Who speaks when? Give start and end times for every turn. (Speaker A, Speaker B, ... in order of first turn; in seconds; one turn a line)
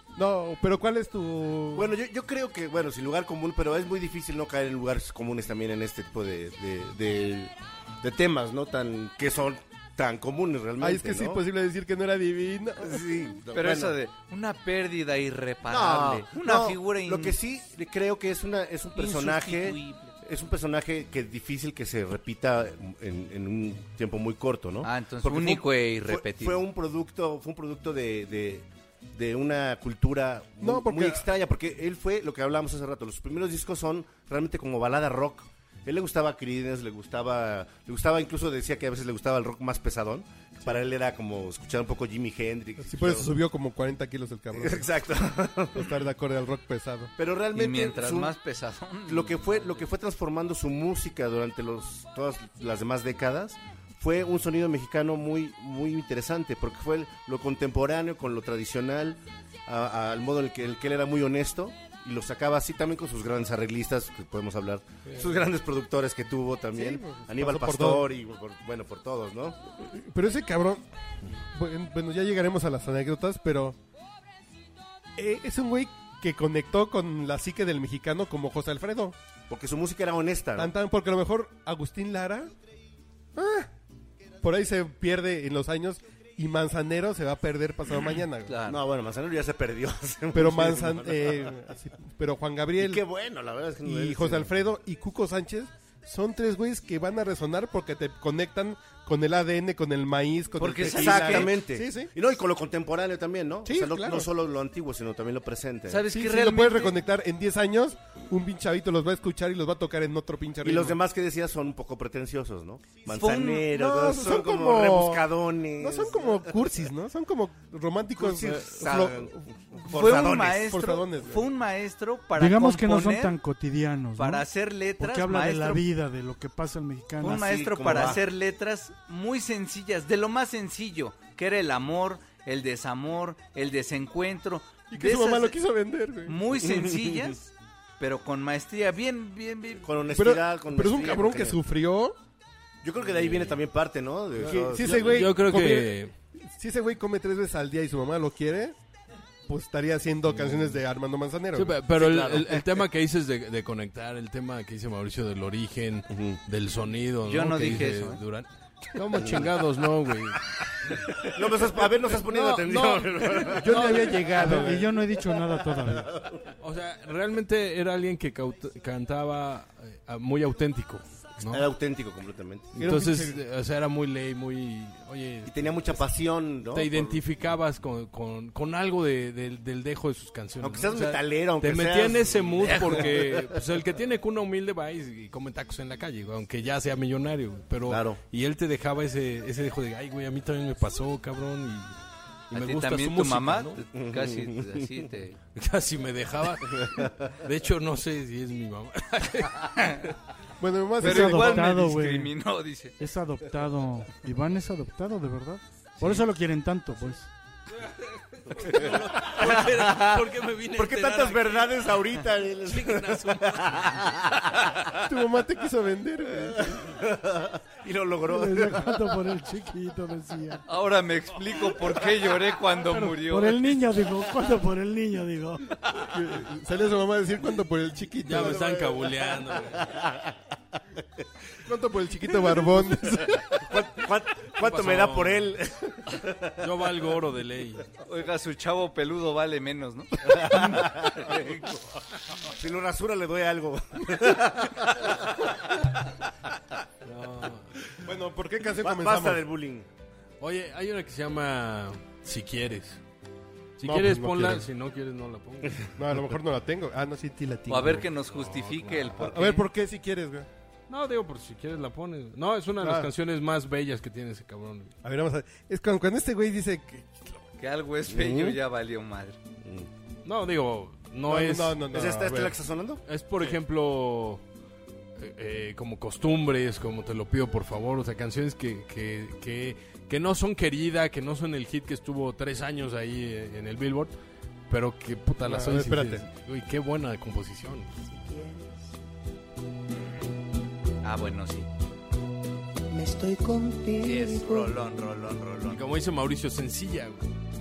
Speaker A: 0.1-1.9
Speaker B: 1.7-11.4
Speaker A: 10.8-13.0
Speaker B: 12.8-14.0
Speaker C: 13.5-17.4
Speaker B: 15.7-43.3
Speaker C: 18.9-20.1
Speaker C: 24.8-26.6
Speaker A: 30.6-31.2
Speaker A: 42.8-45.0
Speaker B: 44.5-46.0
Speaker A: 45.7-47.1
Speaker B: 47.2-48.4
Speaker C: 47.5-49.7
Speaker B: 49.0-69.6
Speaker A: 66.7-68.1
Speaker A: 69.8-70.8
Speaker A: 71.5-73.8
Speaker A: 75.2-79.1
Speaker B: 79.5-80.7
Speaker A: 80.5-82.5
Speaker A: 83.3-83.7
Speaker A: 84.4-88.5
Speaker C: 88.5-88.8
Speaker B: 88.6-91.6
Speaker A: 90.3-93.0
Speaker B: 92.8-94.5
Speaker A: 93.8-102.1
Speaker C: 100.6-101.5
Speaker B: 100.6-106.0
Speaker A: 103.7-104.3
Speaker C: 105.9-107.0
Speaker A: 106.1-111.0
Speaker B: 110.6-116.7
Speaker C: 113.0-113.7
Speaker A: 113.6-121.4
Speaker B: 118.1-120.6
Speaker C: 118.8-119.1
Speaker C: 119.9-123.4
Speaker D: 122.4-124.4
Speaker C: 124.2-125.8
Speaker D: 125.0-127.4
Speaker B: 127.2-128.2
Speaker C: 127.2-135.6
Speaker A: 134.9-136.4
Speaker C: 136.2-140.0
Speaker B: 136.6-137.3
Speaker B: 139.8-141.6
Speaker A: 140.1-142.2
Speaker B: 142.8-145.3
Speaker E: 143.2-143.5
Speaker A: 144.4-148.8
Speaker E: 144.7-146.1
Speaker A: 149.5-152.2
Speaker E: 151.5-161.0
Speaker B: 152.0-152.8
Speaker B: 156.1-156.4
Speaker C: 157.2-158.2
Speaker A: 158.9-159.8
Speaker B: 159.1-159.6
Speaker A: 161.2-164.9
Speaker B: 161.2-164.0
Speaker E: 163.6-164.2
Speaker D: 164.4-166.2
Speaker E: 166.6-171.7
Speaker B: 171.4-172.7
Speaker E: 172.7-176.0
Speaker A: 172.8-173.4
Speaker B: 175.4-177.2
Speaker E: 176.7-192.0
Speaker B: 180.6-183.7
Speaker C: 182.6-183.1
Speaker B: 187.9-188.2
Speaker E: 192.5-193.8
Speaker C: 192.5-195.4
Speaker B: 193.9-195.0
Speaker E: 195.5-200.1
Speaker B: 196.8-197.3
Speaker A: 200.6-201.7
Speaker C: 201.0-203.0
Speaker D: 201.0-202.3
Speaker D: 203.0-207.3
Speaker E: 207.7-211.9
Speaker B: 208.6-214.9
Speaker E: 212.7-214.2
Speaker A: 215.0-216.8
Speaker B: 216.5-219.1
Speaker D: 218.2-220.6
Speaker C: 220.7-223.6
Speaker D: 222.9-225.8
Speaker A: 226.0-229.0
Speaker E: 228.2-229.9
Speaker B: 229.4-231.2
Speaker A: 231.6-233.7
Speaker B: 232.2-236.7
Speaker E: 234.6-235.5
Speaker E: 236.6-237.8
Speaker C: 238.0-242.0
Speaker B: 240.3-241.3
Speaker B: 242.4-245.6
Speaker E: 247.0-247.6
Speaker A: 248.0-249.4
Speaker B: 248.8-249.9
Speaker E: 250.4-253.0
Speaker E: 253.8-255.9
Speaker A: 253.8-254.7
Speaker A: 256.0-258.1
Speaker C: 257.7-259.6
Speaker E: 258.2-259.3
Speaker A: 259.2-260.5
Speaker E: 260.9-264.9
Speaker A: 262.8-263.1
Speaker A: 265.0-267.4
Speaker C: 267.6-269.4
Speaker B: 268.1-268.6
Speaker B: 269.6-269.9
Speaker E: 270.2-271.8
Speaker A: 271.3-272.5
Speaker B: 271.9-273.0
Speaker E: 273.1-274.4
Speaker E: 275.2-284.1
Speaker E: 284.7-287.9
Speaker A: 285.4-286.2
Speaker F: 288.0-288.9
Speaker C: 291.0-291.7
Speaker F: 292.9-294.8
Speaker C: 294.0-295.8
Speaker E: 295.6-297.2